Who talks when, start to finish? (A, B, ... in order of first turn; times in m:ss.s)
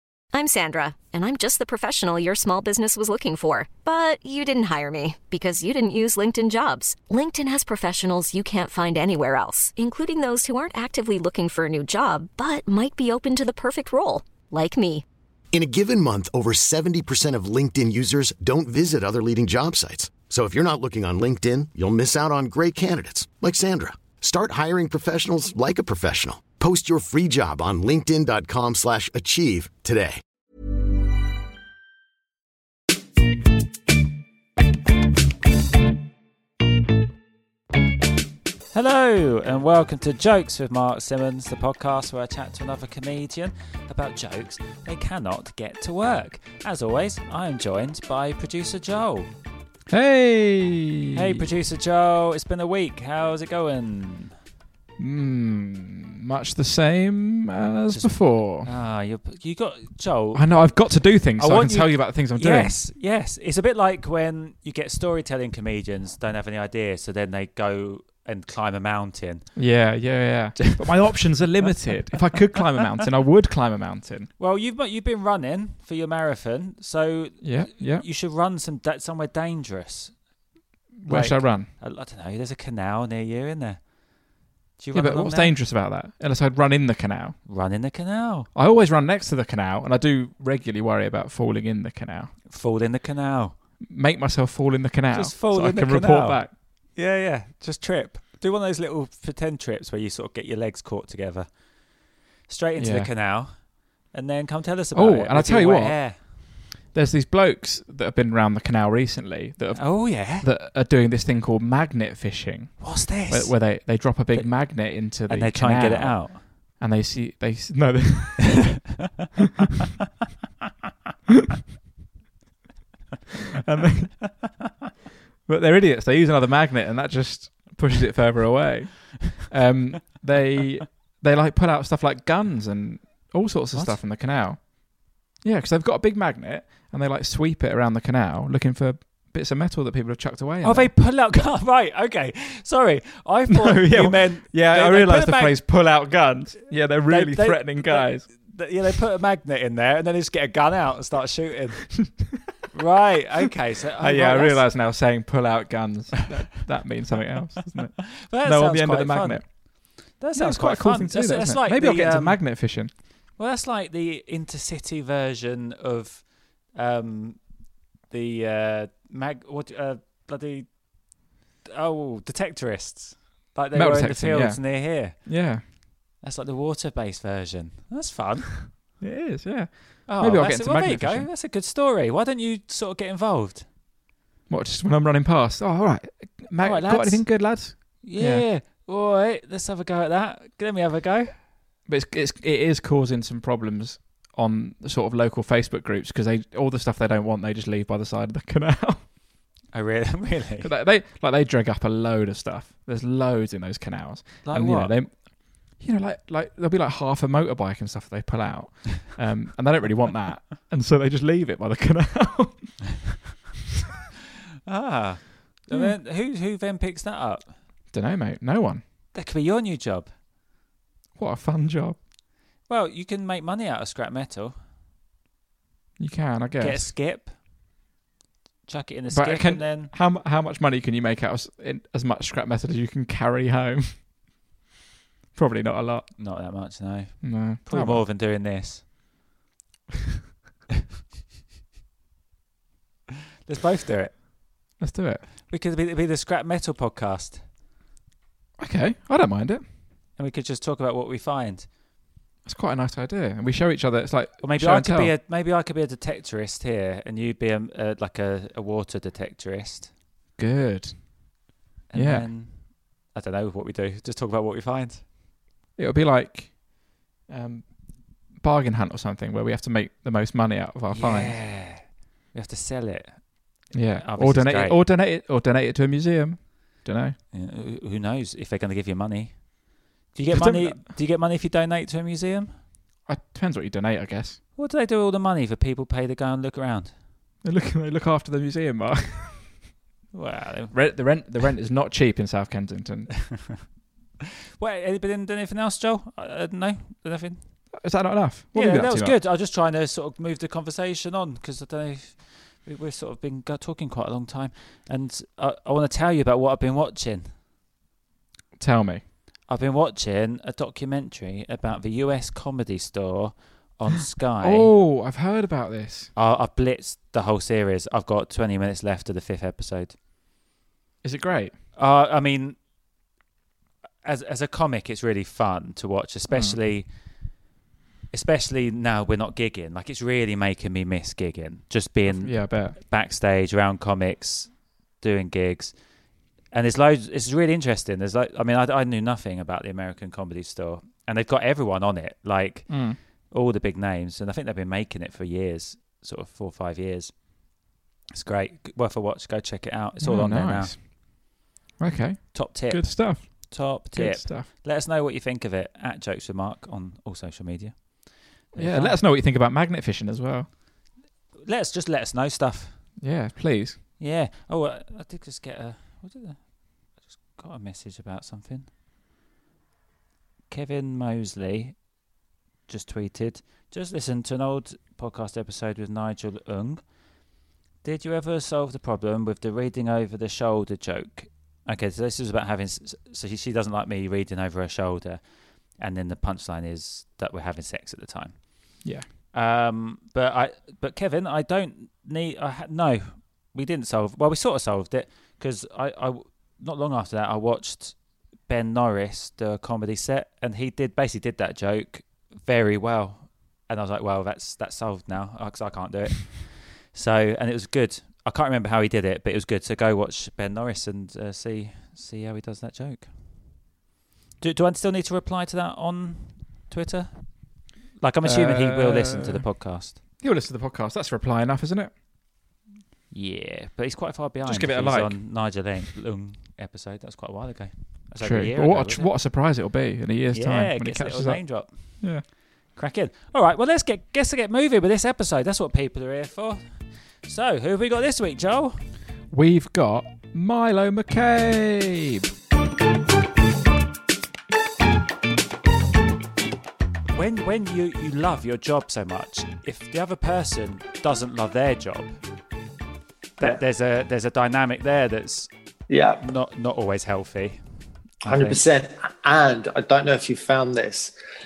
0:00.3-0:15.0 A
0:15.5-0:30.2 B
0:38.7-0:49.3 C
0:49.9-0:51.4 D
0:51.1-0:54.3 C
0:55.0-0:58.7 D
0:57.9-1:09.5 C
1:00.3-1:02.8 D
1:09.5-1:14.3 D
1:14.4-1:20.3 C
1:17.4-1:18.1 D
1:21.0-1:21.7 D
1:21.0-1:23.9 C
1:24.8-1:25.5 C
1:24.9-1:27.4 D
1:27.4-1:28.5 C
1:28.5-1:32.4 D
1:32.4-1:33.6 C
1:33.8-1:36.5 D
1:35.1-1:41.6 C
1:42.5-1:46.2 C
1:42.8-1:43.1 D
1:44.9-1:58.8 D
1:49.8-1:50.4 C
1:52.8-1:56.4 C
2:03.6-2:04.3 D
2:05.4-2:21.0 D
2:13.7-2:14.0 C
2:20.6-2:25.6 C
2:23.5-2:28.3 D
2:27.1-2:34.7 C
2:34.0-2:43.0 D
2:38.1-2:42.7 C
2:43.4-2:51.2 C
2:51.7-2:55.3 C
2:53.7-2:55.6 D
2:56.2-2:58.6 C
2:59.0-3:01.3 D
3:00.0-3:03.7 C
3:04.5-3:08.5 D
3:06.6-3:11.3 C
3:11.8-3:19.1 D
3:19.7-3:20.7 C
3:20.6-3:33.1 D
3:24.4-3:25.0 C
3:34.7-3:37.6 C
3:35.7-3:36.0 D
3:37.9-3:38.8 D
3:39.1-3:40.1 C
3:41.1-3:42.0 D
3:42.6-3:44.6 C
3:46.0-3:46.9 D
3:46.6-3:47.3 C
3:48.6-3:49.9 C
3:49.1-3:54.1 D
3:55.3-3:56.1 D
3:56.2-3:58.8 C
3:57.2-3:58.0 D
4:03.4-4:04.2 C
4:04.8-4:05.3 D
4:05.5-4:07.4 C
4:08.6-4:09.7 D
4:10.2-4:11.7 C
4:12.4-4:15.1 D
4:14.4-4:19.9 C
4:20.4-4:21.3 D
4:21.9-4:25.0 C
4:21.9-4:22.3 D
4:25.8-4:31.4 D
4:30.9-4:34.8 C
4:33.7-4:37.2 D
4:37.3-4:42.6 C
4:40.3-4:40.8 D
4:43.0-4:44.4 D
4:44.6-4:46.9 C
4:47.4-4:49.6 D
4:50.1-4:51.2 C
4:50.7-4:53.3 D
4:54.6-4:57.7 C
4:57.8-4:59.2 D
4:58.5-5:07.4 C
5:08.6-5:09.0 D
5:09.5-5:14.7 C
5:14.4-5:16.1 D
5:16.2-5:20.0 C
5:21.0-5:21.6 D
5:21.8-5:22.6 C
5:24.0-5:27.3 C
5:26.3-5:26.6 D
5:28.1-5:35.8 C
5:32.0-5:32.8 D
5:36.5-5:47.3 C
5:42.7-5:43.0 D
5:48.1-5:50.8 C
5:50.0-5:51.0 D
5:51.8-5:54.5 D
5:52.2-5:59.0 C
5:58.6-6:00.5 D
6:01.4-6:02.9 C
6:03.0-6:03.8 D
6:04.0-6:08.7 C
6:10.5-6:11.9 C
6:12.7-6:17.0 C
6:17.8-6:53.4 C
6:54.4-7:00.0 C
6:58.2-7:01.9 D
7:03.1-7:09.1 C
7:04.4-7:05.6 D
7:08.2-7:12.2 D
7:10.3-7:18.8 C
7:19.3-7:22.3 D
7:27.1-7:32.2 C
7:33.4-7:35.5 C
7:35.9-7:36.2 E
7:36.2-7:37.6 C
7:38.2-7:38.6 C
7:38.2-7:41.1 E